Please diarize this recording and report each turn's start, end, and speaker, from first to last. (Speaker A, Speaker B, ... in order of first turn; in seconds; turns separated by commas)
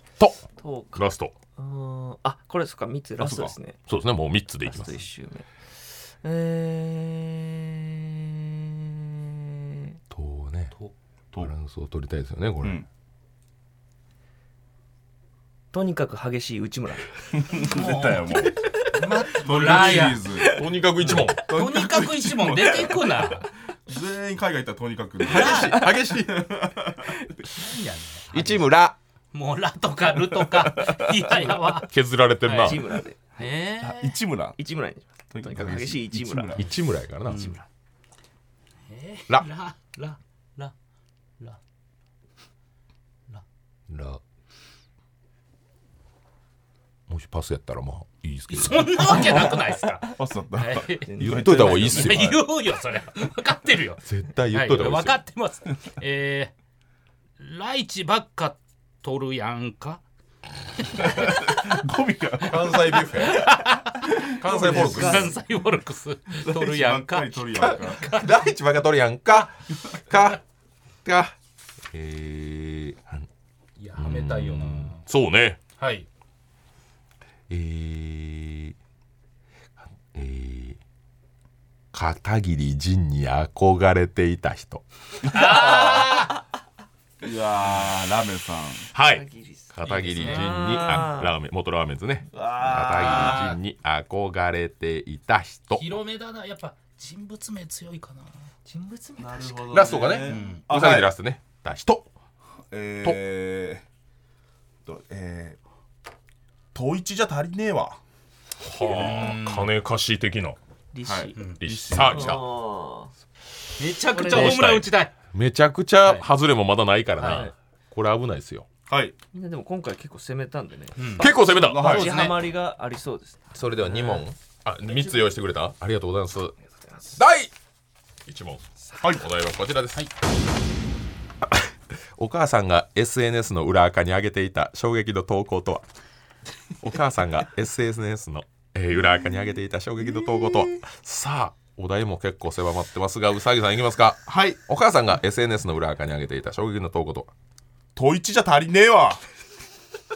Speaker A: 0.2-0.4, Speaker B: 0.6-1.0, Speaker A: 0.9-1.3, Speaker B: 1.6-3.8, Speaker C: 3.2-3.5, Speaker A: 3.9-5.0, Speaker B: 4.7-5.5, Speaker B: 6.0-10.0, Speaker A: 10.1-10.7, Speaker A: 11.4-12.8, Speaker B: 15.7-17.7, Speaker C: 17.3-18.6, Speaker D: 17.6-18.4, Speaker D: 18.9-20.3, Speaker C: 19.3-23.3, Speaker B: 20.1-21.2, Speaker A: 20.5-21.5, Speaker D: 21.5-23.5, Speaker C: 23.9-27.3, Speaker A: 25.3-26.5, Speaker D: 25.3-25.8, Speaker B: 25.5-26.0, Speaker D: 27.5-28.6, Speaker A: 28.3-29.0, Speaker D: 29.3-31.9, Speaker C: 30.4-31.5, Speaker A: 31.9-32.9, Speaker D: 32.4-32.8, Speaker B: 32.6-33.5, Speaker D: 33.4-34.2, Speaker C: 33.8-34.6, Speaker B: 34.6-36.6, Speaker C: 35.3-36.7, Speaker A: 36.6-37.5, Speaker D: 37.2-37.6, Speaker B: 37.3-37.6, Speaker D: 38.9-40.7, Speaker A: 43.9-44.2, Speaker A: 47.1-49.3, Speaker D: 48.5-51.1, Speaker C: 50.1-52.3, Speaker B: 51.0-52.0, Speaker A: 51.2-52.4, Speaker D: 51.9-54.0, Speaker A: 54.0-55.2, Speaker D: 54.5-56.5, Speaker D: 57.4-60.0, Speaker C: 61.0-63.5, Speaker D: 61.0-61.3, Speaker A: 62.4-63.5, Speaker D: 63.3-64.0, Speaker C: 64.2-65.3, Speaker A: 64.4-65.3, Speaker B: 64.5-65.3, Speaker D: 64.7-68.3, Speaker C: 66.4-68.2, Speaker A: 68.1-70.4, Speaker A: 71.0-71.3, Speaker A: 71.9-73.3, Speaker D: 73.8-75.0, Speaker A: 74.0-75.6, Speaker D: 75.8-76.1, Speaker A: 77.5-78.8, Speaker A: 80.1-80.8, Speaker A: 81.9-84.8, Speaker C: 85.3-86.1, Speaker D: 85.3-86.3, Speaker C: 87.2-88.9, Speaker A: 88.9-95.9, Speaker B: 89.0-91.3, Speaker D: 89.8-90.5, Speaker C: 92.3-93.5, Speaker D: 93.0-93.6, Speaker D: 95.7-98.3, Speaker B: 98.7-100.2, Speaker C: 99.2-101.1, Speaker A: 99.7-102.1, Speaker D: 100.3-100.7, Speaker C: 102.7-103.8, Speaker C: 104.9-105.6, Speaker C: 106.7-108.0, Speaker A: 108.6-110.6, Speaker D: 108.8-109.7, Speaker B: 110.9-111.4, Speaker C: 111.1-112.4, Speaker D: 111.4-111.6, Speaker A: 111.6-112.4, Speaker B: 111.9-113.1, Speaker D: 113.8-115.1, Speaker B: 114.1-114.7, Speaker A: 114.3-118.7, Speaker D: 117.2-117.5, Speaker B: 117.2-117.5, Speaker C: 118.9-119.1, Speaker B: 119.3-123.4, Speaker D: 121.0-122.4, Speaker A: 121.2-122.1, Speaker C: 121.4-122.4, Speaker A: 123.5-126.6, Speaker A: 127.2-127.5, Speaker A: 128.3-130.0, Speaker C: 129.0-129.2, Speaker A: 132.2-135.8, Speaker A: 136.8-147.3, Speaker C: 144.3-144.6, Speaker C: 148.0-149.2